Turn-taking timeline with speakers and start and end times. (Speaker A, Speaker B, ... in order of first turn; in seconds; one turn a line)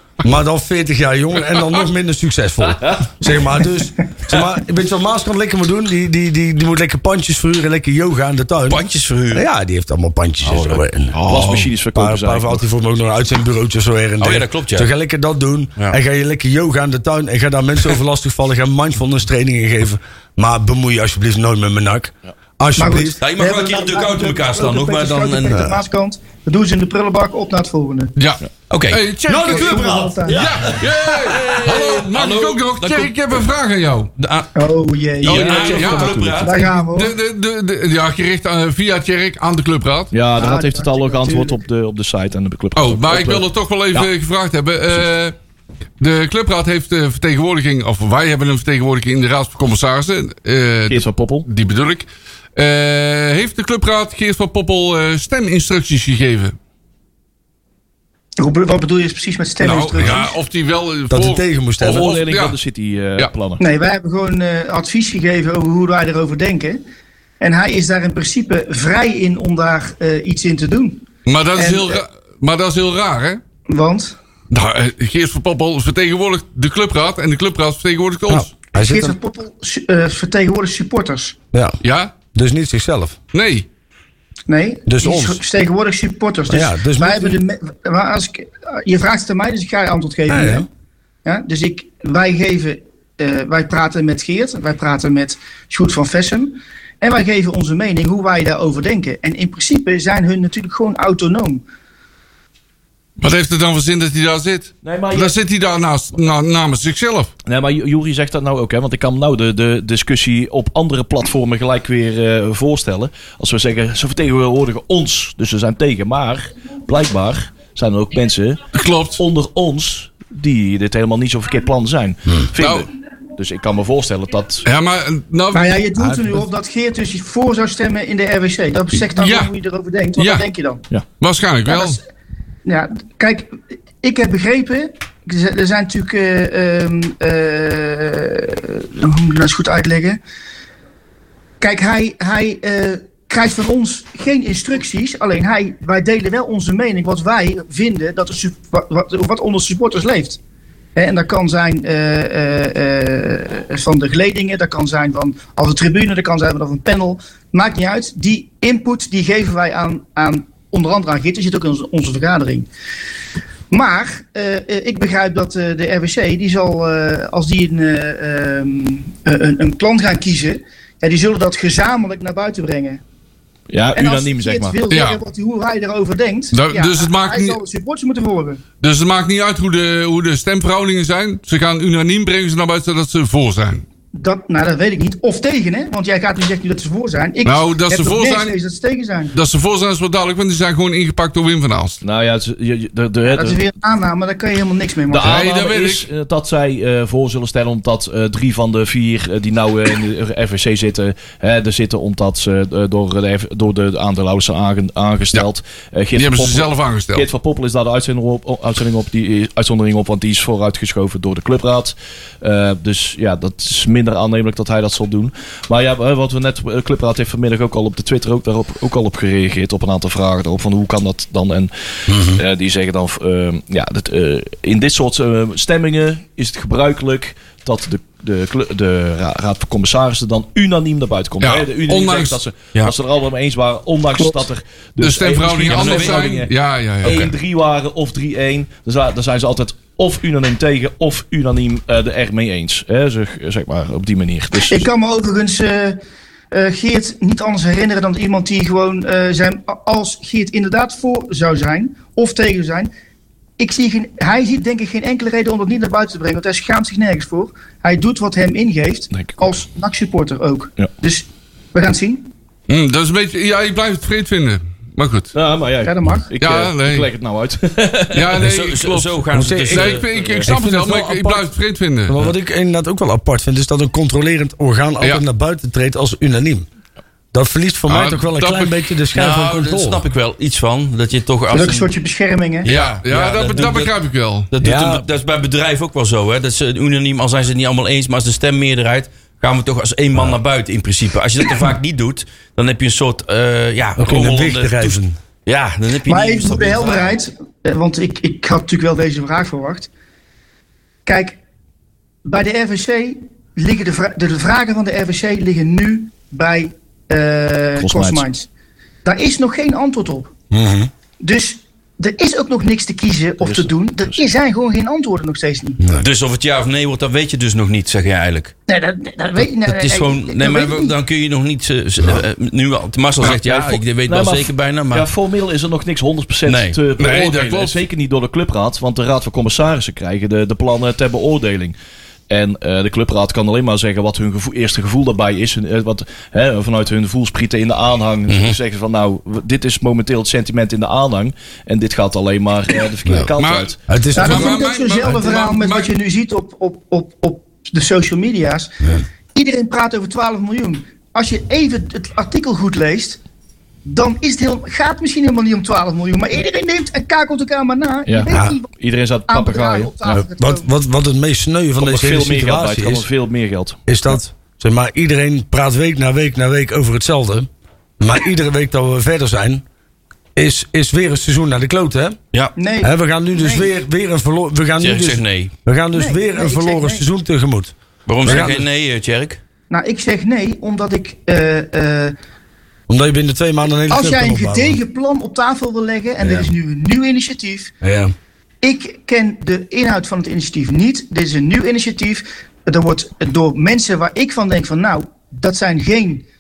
Speaker A: 0.2-23.2
Speaker B: 2.8-3.1
Speaker C: 8.7-9.4
Speaker C: 10.5-10.8
Speaker B: 11.2-12.6
Speaker C: 14.2-14.9
Speaker D: 22.8-28.1
Speaker C: 23.2-25.6
Speaker A: 25.5-25.8
Speaker E: 28.2-29.8
Speaker C: 28.7-29.0
Speaker A: 29.3-30.7
Speaker D: 29.4-30.4
Speaker C: 30.3-33.4
Speaker E: 30.3-34.1
Speaker C: 34.2-34.5
Speaker D: 34.5-37.1
Speaker C: 35.2-36.7
Speaker B: 35.3-36.4
Speaker E: 35.3-40.1
Speaker B: 40.1-44.1
Speaker D: 40.4-41.6
Speaker E: 42.8-45.4
Speaker E: 46.0-56.5
Speaker B: 50.9-51.5
Speaker D: 58.4-60.4
Speaker E: 59.6-62.6
Speaker A: 61.1-62.1
Speaker B: 61.8-63.6
Speaker D: 63.6-66.8
Speaker D: 67.4-71.0
Speaker E: 71.3-73.4
Speaker D: 71.6-72.0
Speaker D: 73.7-74.2
Speaker E: 74.5-78.5
Speaker A: 78.3-79.2
Speaker D: 78.8-81.4
Speaker E: 81.8-82.1
Speaker A: 82.3-83.2
Speaker E: 83.3-83.7
Speaker D: 84.5-90.7
Speaker A: 84.9-85.4
Speaker A: 86.5-87.4
Speaker A: 90.3-90.7
Speaker D: 91.2-101.6
Speaker E: 103.2-107.3
Speaker B: 104.8-105.4
Speaker B: 107.5-118.6
Speaker E: 118.7-119.2
Speaker B: 119.2-124.7
Speaker E: 122.6-122.9
Speaker E: 124.7-125.9
Speaker D: 125.5-130.8
Speaker A: 126.0-126.4
Speaker E: 129.1-129.5
Speaker E: 130.2-130.4
Speaker E: 131.2-132.0
Speaker D: 131.7-132.0
Speaker D: 132.7-140.2
Speaker D: 141.6-150.4
Speaker D: 151.0-162.7
Speaker D: 163.7-173.0
Speaker B: 173.7-174.8
Speaker D: 173.9-178.6
Speaker E: 174.9-175.2
Speaker E: 176.5-177.6
Speaker E: 178.8-183.8
Speaker D: 184.1-189.3
Speaker E: 187.4-188.6
Speaker E: 189.3-192.0
Speaker B: 192.0-193.6
Speaker D: 193.3-195.4
Speaker B: 195.1-244.9
Speaker E: 195.2-196.1
Speaker E: 206.1-207.3
Speaker A: 222.1-222.4
Speaker E: 231.4-232.4
Speaker E: 235.0-237.3
Speaker C: 235.7-236.3
Speaker C: 237.0-237.3
Speaker D: 244.7-246.0
Speaker D: 246.5-252.9
Speaker D: 253.6-262.3
Speaker B: 259.1-259.5
Speaker E: 262.7-265.3
Speaker B: 265.4-268.4
Speaker D: 265.8-266.2
Speaker E: 266.4-267.1
Speaker E: 268.1-272.2
Speaker C: 268.4-270.1
Speaker A: 269.3-271.5
Speaker B: 270.1-270.5
Speaker A: 272.1-276.7
Speaker A: 277.3-280.0
Speaker E: 277.9-278.9
Speaker C: 279.1-281.9
Speaker D: 281.5-282.7
Speaker C: 282.6-283.9
Speaker E: 282.7-284.5
Speaker C: 284.5-297.1
Speaker A: 284.6-285.1
Speaker A: 294.0-295.2
Speaker D: 296.1-299.9
Speaker D: 301.1-301.4
Speaker D: 302.2-308.5
Speaker B: 307.8-308.3
Speaker D: 309.1-310.3
Speaker A: 310.5-310.9
Speaker D: 311.2-315.8
Speaker B: 313.4-314.2
Speaker A: 315.8-316.1
Speaker C: 315.9-318.5
Speaker D: 318.7-320.9
Speaker C: 319.7-325.1
Speaker B: 323.2-331.8
Speaker C: 326.5-326.8
Speaker E: 327.0-327.8
Speaker B: 332.3-343.8
Speaker C: 338.3-338.6
Speaker E: 343.4-345.9
Speaker A: 343.9-344.6
Speaker D: 344.1-348.8
Speaker D: 349.3-353.2
Speaker D: 353.9-358.7
Speaker B: 358.1-359.9
Speaker A: 358.3-358.6
Speaker D: 359.3-360.7
Speaker A: 360.1-363.1
Speaker B: 361.8-363.8
Speaker A: 363.9-369.6
Speaker A: 370.4-372.2
Speaker D: 372.6-373.7
Speaker A: 372.8-378.6
Speaker C: 374.8-375.5
Speaker D: 375.9-377.1
Speaker C: 378.1-379.4
Speaker D: 379.7-382.1
Speaker A: 382.9-384.8
Speaker D: 383.9-387.7
Speaker A: 386.2-386.5
Speaker A: 387.8-388.1
Speaker D: 388.6-396.2